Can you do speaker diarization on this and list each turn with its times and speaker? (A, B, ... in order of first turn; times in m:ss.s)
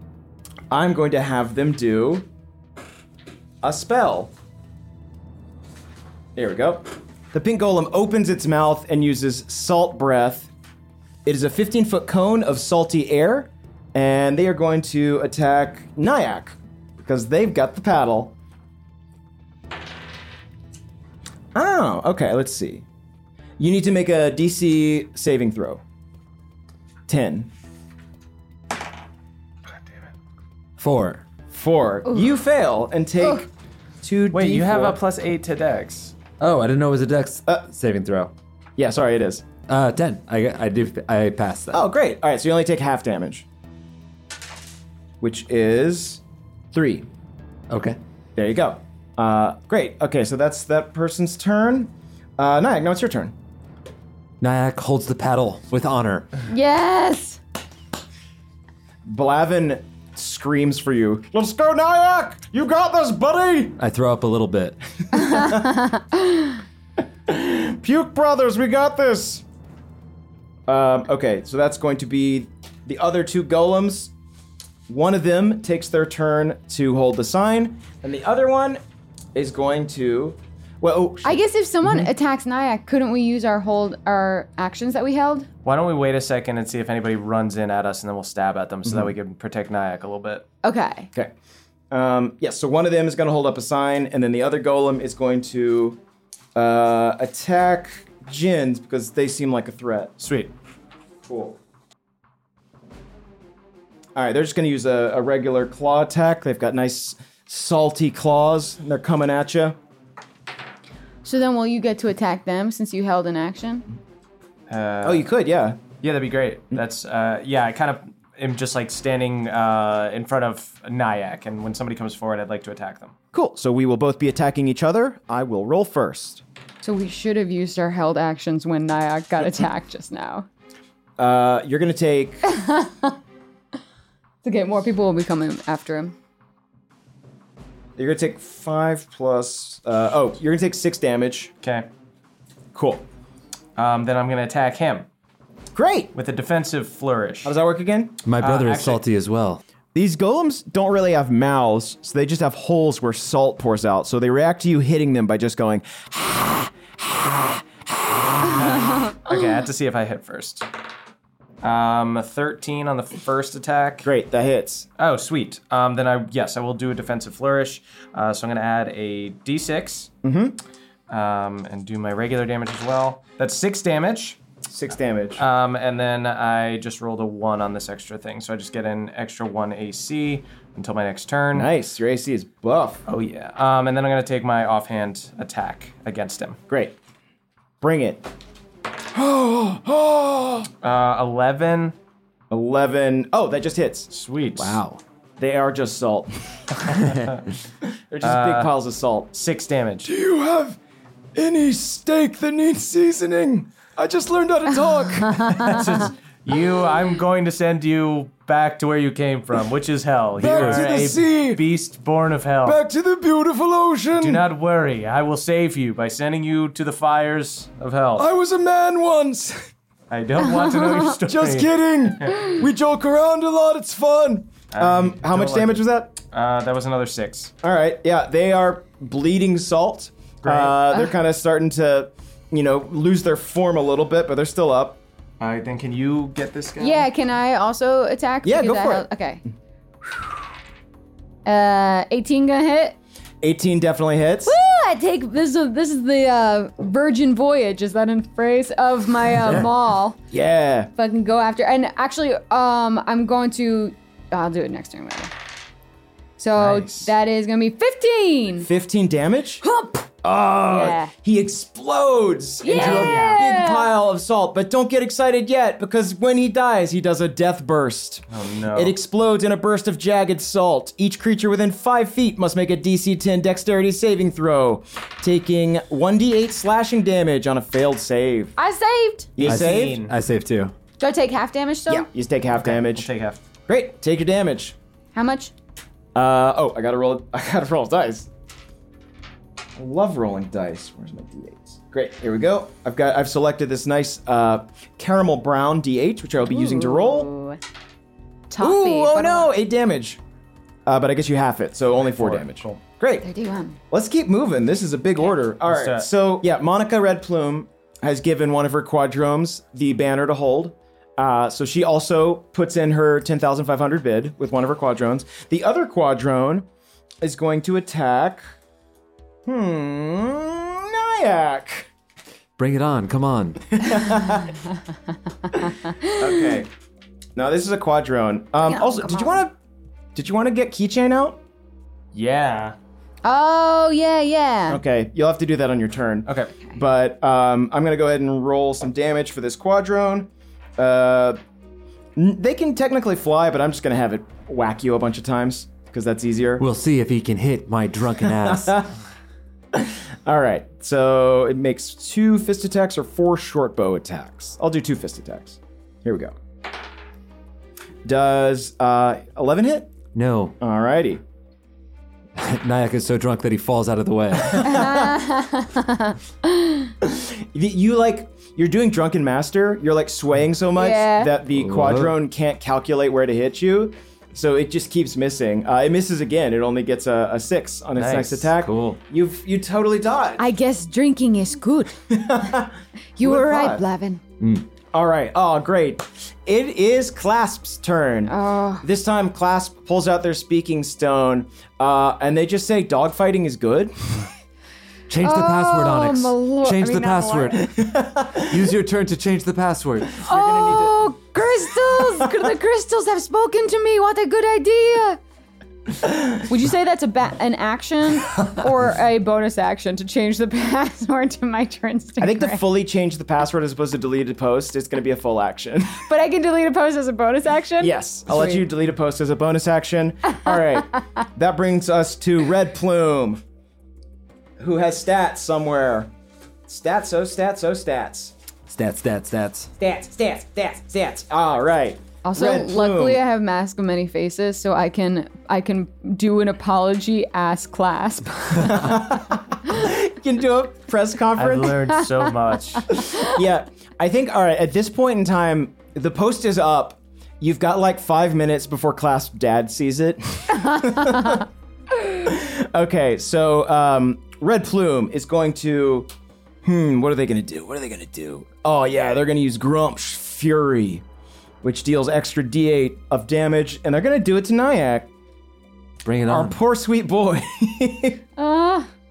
0:00.7-0:02.3 A
0:03.6-0:04.3 A
0:06.4-0:10.5 A
0:11.2-0:18.4 A
0:21.6-0:22.8 A
0:23.6-0:25.8 A
0:27.1-0:27.5 A
0:30.8-0:31.2 B
0:31.5-0:33.5 A
0:34.0-0:35.0 A
0:34.3-0:36.1 C
0:36.4-0:38.3 B
0:38.8-0:39.4 A
0:39.7-0:41.8 B
0:41.7-0:43.5 A
0:45.2-0:46.2 A
0:46.7-0:47.1 A
0:47.7-0:48.0 B
0:48.4-0:53.3 A
0:54.4-0:56.3 B
0:56.5-0:57.4 D
0:59.1-1:03.8 A
1:03.8-1:04.8 B
1:05.1-1:06.6 D
1:05.2-1:05.6 A
1:07.3-1:09.4 A
1:10.7-1:14.1 A
1:14.9-1:18.8 A
1:19.4-1:22.0 A
1:21.2-1:25.5 D
1:25.6-1:30.4 C
1:28.8-1:29.1 A
1:30.6-1:31.1 D
1:31.9-1:36.0 A
1:36.6-1:40.1 A
1:40.2-1:40.5 C
1:41.2-1:41.6 A
1:44.2-1:49.8 A
1:51.2-1:53.8 D
1:54.7-1:55.3 C
1:55.0-1:55.8 A
1:56.0-2:03.1 C
2:03.3-2:06.4 A
2:06.8-2:10.4 D
2:11.2-2:12.4 A
2:12.5-2:13.1 D
2:14.4-2:16.1 D
2:18.0-2:21.5 A
2:21.6-2:21.9 C
2:22.7-2:23.1 A
2:23.8-2:25.1 C
2:25.7-2:26.1 A
2:26.1-2:27.5 C
2:27.4-2:28.2 A
2:28.2-2:29.6 B
2:28.4-2:29.0 C
2:29.9-2:37.6 A
2:38.5-2:40.6 C
2:41.6-2:44.1 C
2:44.0-2:44.9 A
2:45.0-2:50.1 C
2:50.2-2:50.6 A
2:51.1-2:54.4 C
2:54.7-2:55.4 A
2:55.4-3:01.7 C
3:01.5-3:03.0 A
3:03.1-3:06.6 C
3:06.7-3:07.0 A
3:07.8-3:08.2 A
3:09.1-3:10.7 A
3:10.8-3:11.9 C
3:12.5-3:14.1 A
3:14.1-3:14.8 C
3:14.6-3:15.0 B
3:15.4-3:17.0 A
3:18.1-3:19.3 A
3:18.2-3:18.7 C
3:19.3-3:20.1 C
3:20.0-3:20.8 A
3:21.4-3:26.0 A
3:25.2-3:25.8 D
3:25.6-3:32.8 C
3:30.4-3:31.6 A
3:32.6-3:34.4 A
3:34.2-3:38.3 C
3:38.2-3:39.6 A
3:40.1-3:42.4 C
3:40.6-3:41.0 D
3:41.2-3:46.2 A
3:44.7-3:47.5 C
3:47.6-3:55.0 A
3:50.4-3:50.8 C
3:55.4-3:57.1 C
3:56.8-3:59.4 D
3:58.4-3:59.1 A
4:01.4-4:03.0 D
4:03.4-4:04.6 A
4:04.4-4:10.2 D
4:09.4-4:09.7 B
4:10.3-4:10.9 A
4:11.0-4:15.3 D
4:16.4-4:18.7 D
4:16.6-4:17.0 C
4:18.6-4:19.6 A
4:19.6-4:20.1 D
4:20.2-4:38.6 A
4:20.7-4:21.1 D
4:22.6-4:23.9 D
4:22.6-4:23.4 C
4:28.3-4:28.9 C
4:38.6-4:39.3 D
4:39.4-4:40.0 A
4:39.4-4:40.1 C
4:39.4-4:40.7 B
4:41.0-4:42.1 D
4:41.9-4:43.1 A
4:42.5-4:43.4 C
4:43.7-4:44.8 A
4:45.1-4:45.5 D
4:46.1-4:48.3 A
4:49.8-4:57.3 A
4:56.4-4:57.6 D
4:58.5-4:59.5 D
4:58.6-5:00.2 A
5:00.8-5:03.3 A
5:02.0-5:02.8 C
5:03.2-5:03.8 D
5:03.9-5:16.7 A
5:05.6-5:06.1 C
5:17.2-5:18.4 A
5:19.4-5:21.9 A
5:22.6-5:23.7 B
5:23.7-5:24.6 A
5:26.1-5:26.7 A
5:27.4-5:29.5 A
5:28.7-5:29.4 D
5:30.1-5:31.4 A
5:32.1-5:32.8 C
5:33.2-5:34.8 D
5:34.7-5:41.4 A
5:36.3-5:36.5 C
5:42.2-5:46.6 A
5:46.6-5:48.8 B
5:48.3-5:48.9 A
5:49.7-5:56.4 A
5:58.0-5:59.9 A
6:00.1-6:00.6 B
6:00.6-6:01.2 A
6:02.4-6:04.8 B
6:04.4-6:05.2 A
6:04.6-6:06.9 D
6:07.0-6:20.4 A
6:10.7-6:11.3 D
6:11.5-6:12.1 B
6:18.0-6:18.5 C
6:18.5-6:19.0 B
6:20.4-6:22.0 D
6:22.1-6:23.8 A
6:23.2-6:24.2 D
6:24.4-6:34.3 A
6:28.3-6:28.8 D
6:35.1-6:37.7 B
6:35.2-6:37.6 D
6:37.7-6:38.6 A
6:38.4-6:40.2 B
6:40.2-6:41.1 A
6:40.3-6:45.2 D
6:46.4-6:52.6 D
6:52.2-6:56.1 A
6:56.1-6:58.6 D
6:57.8-7:03.4 A
7:04.6-7:06.1 A
7:06.7-7:08.3 A
7:08.7-7:09.7 B
7:09.8-7:13.2 A
7:12.2-7:18.9 D
7:18.6-7:21.8 A
7:21.4-7:23.0 C
7:23.1-7:31.4 A
7:32.1-7:36.1 A
7:36.6-7:41.0 A
7:41.6-7:45.1 A
7:46.0-7:46.6 B
7:46.3-7:48.2 A
7:48.4-7:48.9 D